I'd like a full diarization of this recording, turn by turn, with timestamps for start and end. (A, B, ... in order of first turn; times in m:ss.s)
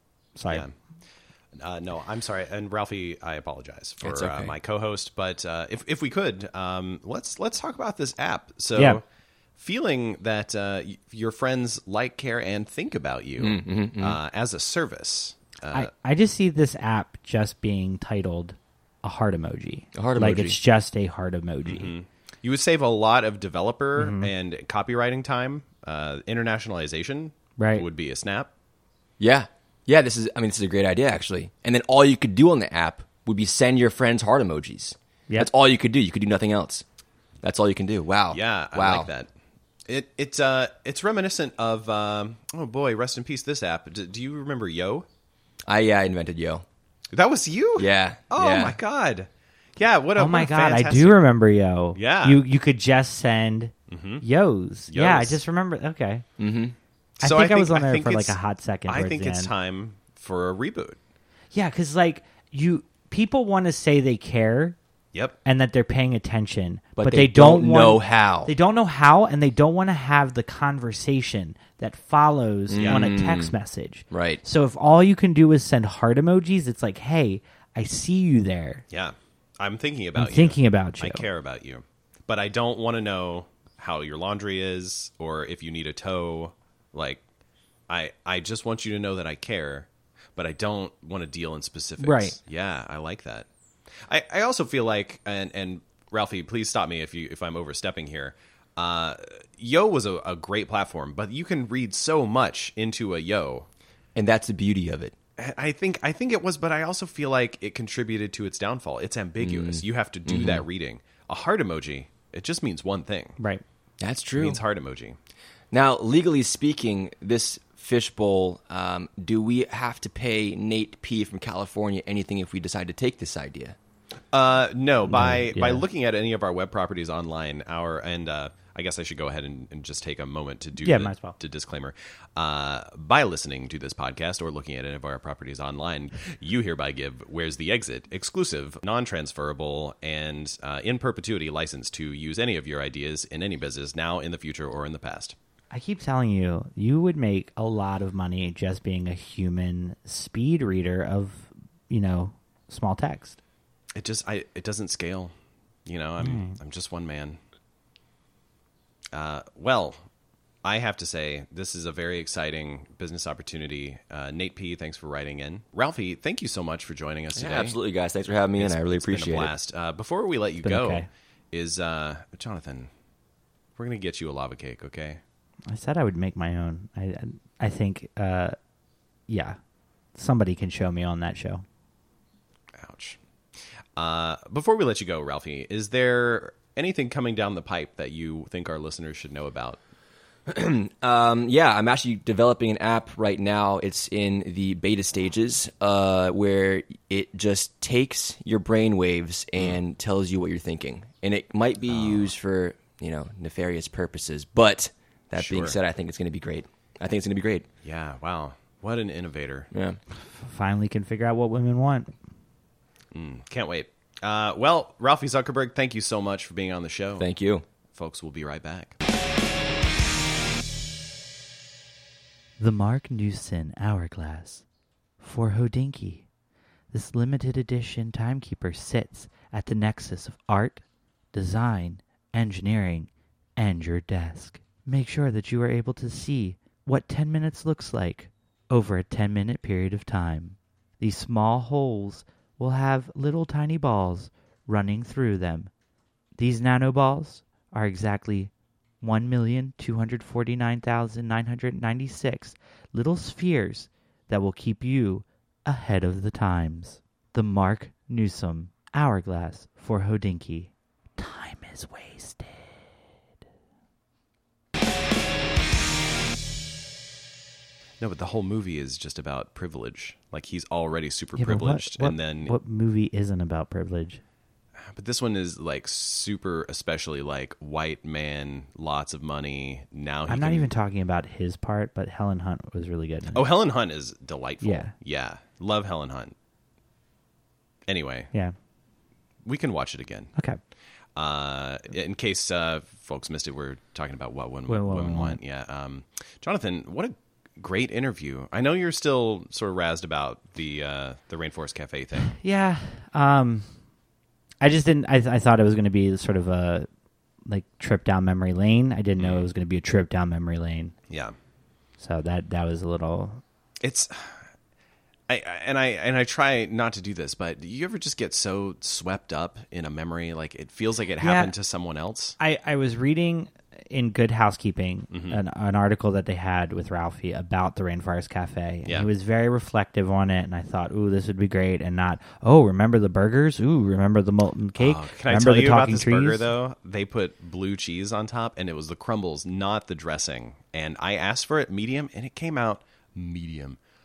0:00.4-0:00.6 A
0:01.6-0:09.0 B
0:04.0-0:04.6 C
0:08.8-0:09.0 A
0:09.6-0:15.9 B
0:13.4-0:14.2 C
0:15.7-0:21.9 A
0:19.9-0:20.6 C
0:21.6-0:28.5 B
0:24.0-0:24.3 A
0:27.6-0:27.9 A
0:29.2-0:36.8 C
0:37.4-0:39.1 C
0:38.3-0:39.3 B
0:39.9-0:45.1 B
0:45.7-0:46.6 C
0:47.1-0:51.2 B
0:47.8-0:48.8 C
0:50.2-0:56.2 A
0:52.0-0:52.4 B
0:53.9-0:54.2 B
0:54.9-0:55.4 B
0:56.4-0:56.8 C
0:57.2-1:01.0 B
0:57.2-0:59.5 A
1:01.5-1:04.8 A
1:05.4-1:18.8 A
1:07.0-1:08.5 C
1:12.7-1:13.5 C
1:12.8-1:13.1 B
1:14.1-1:14.4 C
1:18.9-1:27.2 B
1:20.2-1:21.2 A
1:27.9-1:33.5 B
1:32.0-1:32.4 A
1:34.1-1:43.7 B
1:44.1-1:45.1 C
1:45.4-1:53.4 B
1:49.4-1:50.6 C
1:54.0-1:54.6 C
1:54.4-1:55.2 B
1:55.7-2:03.8 C
2:04.3-2:25.4 B
2:05.1-2:05.8 A
2:10.8-2:11.4 A
2:25.7-2:33.4 A
2:34.0-2:35.3 B
2:35.9-2:37.4 B
2:36.2-2:36.6 A
2:39.1-2:40.0 B
2:40.6-2:47.8 B
2:47.3-2:49.5 C
2:48.6-2:52.9 B
2:50.6-2:51.1 A
2:53.8-2:55.2 B
2:55.7-2:58.6 A
2:59.3-2:59.6 A
3:00.1-3:01.6 A
3:02.8-3:03.2 B
3:04.0-3:09.8 B
3:10.5-3:27.7 C
3:21.9-3:22.3 B
3:25.4-3:25.8 B
3:27.8-3:29.7 B
3:29.7-3:30.0 C
3:30.3-3:32.1 A
3:33.1-3:37.3 B
3:37.2-3:37.6 C
3:37.9-3:39.0 B
3:42.6-3:44.6 A
3:45.2-3:46.3 A
3:46.9-4:05.7 A
4:06.4-4:22.9 A
4:28.0-4:32.5 B
4:31.4-4:34.2 A
4:34.8-4:40.7 B
4:40.3-4:43.5 A
4:43.3-4:46.3 B
4:44.6-4:44.9 A
4:47.9-4:48.3 B
4:49.4-4:50.3 B
4:51.2-5:02.3 B
4:54.7-4:55.4 A
5:02.3-5:03.7 A
5:04.6-5:06.9 A
5:07.5-5:11.0 A
5:09.2-5:09.5 B
5:11.1-5:11.4 B
5:12.0-5:13.4 A
5:13.8-5:14.4 B
5:15.3-5:22.4 B
5:21.2-5:21.5 A
5:22.4-5:36.4 A
5:25.1-5:25.4 B
5:34.8-5:43.8 B